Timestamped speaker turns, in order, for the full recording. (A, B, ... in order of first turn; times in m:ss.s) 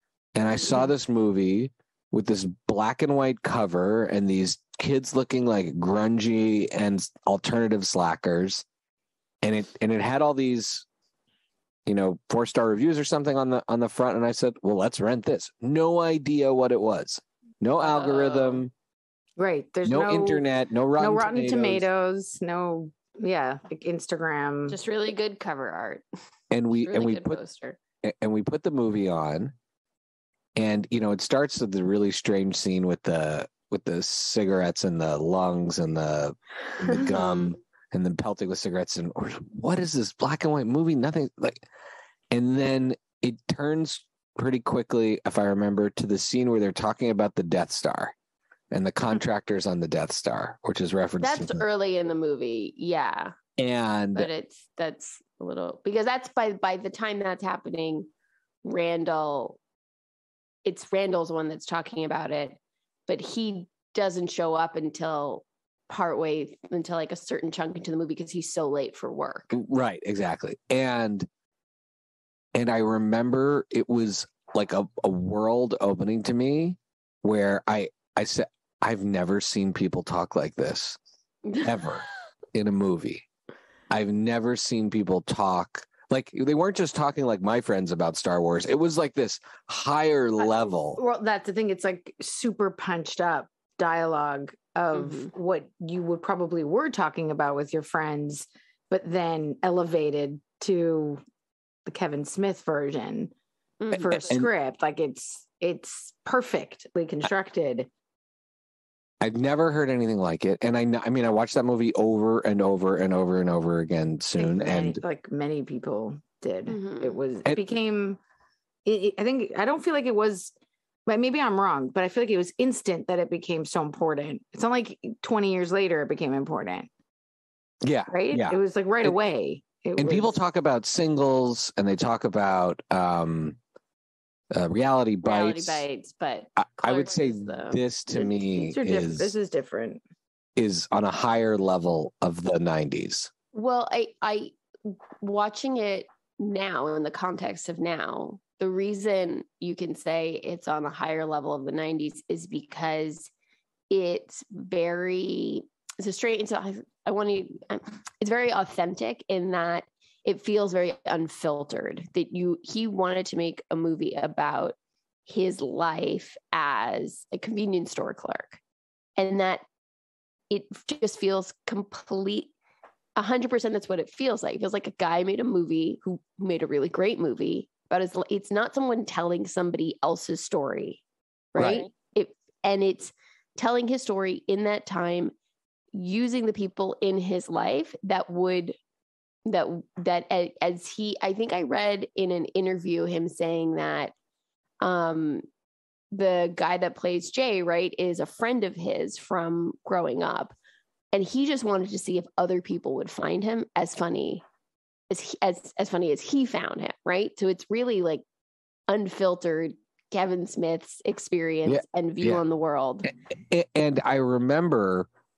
0:00.3-0:08.6 A
0:09.4-0:10.8 A
0:11.8-0:18.7 A
0:17.8-0:18.6 B
0:19.4-0:20.4 C
0:19.8-0:21.9 A
0:21.0-0:24.8 C
0:24.7-0:26.0 B
0:26.5-0:27.4 A
0:26.8-0:27.8 B
0:28.0-0:29.5 A
0:30.6-0:41.6 A
0:36.9-0:37.6 B
0:42.3-0:48.1 A
0:48.7-0:51.6 A
0:51.2-0:53.3 B
0:53.6-0:54.3 A
0:54.2-0:58.1 B
0:58.6-0:59.6 B
1:00.6-1:09.5 B
1:09.5-1:11.3 A
1:12.6-1:21.0 A
1:21.4-1:21.7 B
1:21.6-1:23.2 A
1:23.9-1:31.0 A
1:30.4-1:41.2 C
1:34.9-1:35.3 B
1:41.8-1:43.3 C
1:43.8-1:44.1 B
1:43.9-1:44.5 A
1:43.9-1:47.9 C
1:49.2-1:55.0 A
1:54.4-1:58.2 C
1:56.7-1:57.2 B
1:58.8-2:00.5 C
2:01.1-2:06.9 C
2:07.8-2:09.2 A
2:08.1-2:10.4 C
2:10.0-2:13.6 A
2:14.5-2:15.8 A
2:15.2-2:17.8 B
2:16.6-2:19.3 A
2:18.1-2:20.0 C
2:20.6-2:23.3 A
2:23.5-2:33.3 B
2:33.9-2:48.6 B
2:49.2-2:49.6 B
2:50.5-2:52.5 B
2:53.2-3:01.0 B
3:01.6-3:05.3 B
3:01.6-3:01.9 A
3:05.9-3:08.8 B
3:09.4-3:14.1 B
3:14.8-3:15.4 B
3:16.1-3:20.5 B
3:21.1-3:24.4 B
3:25.1-3:28.2 B
3:28.9-3:33.1 B
3:31.7-3:32.4 A
3:33.5-3:35.1 A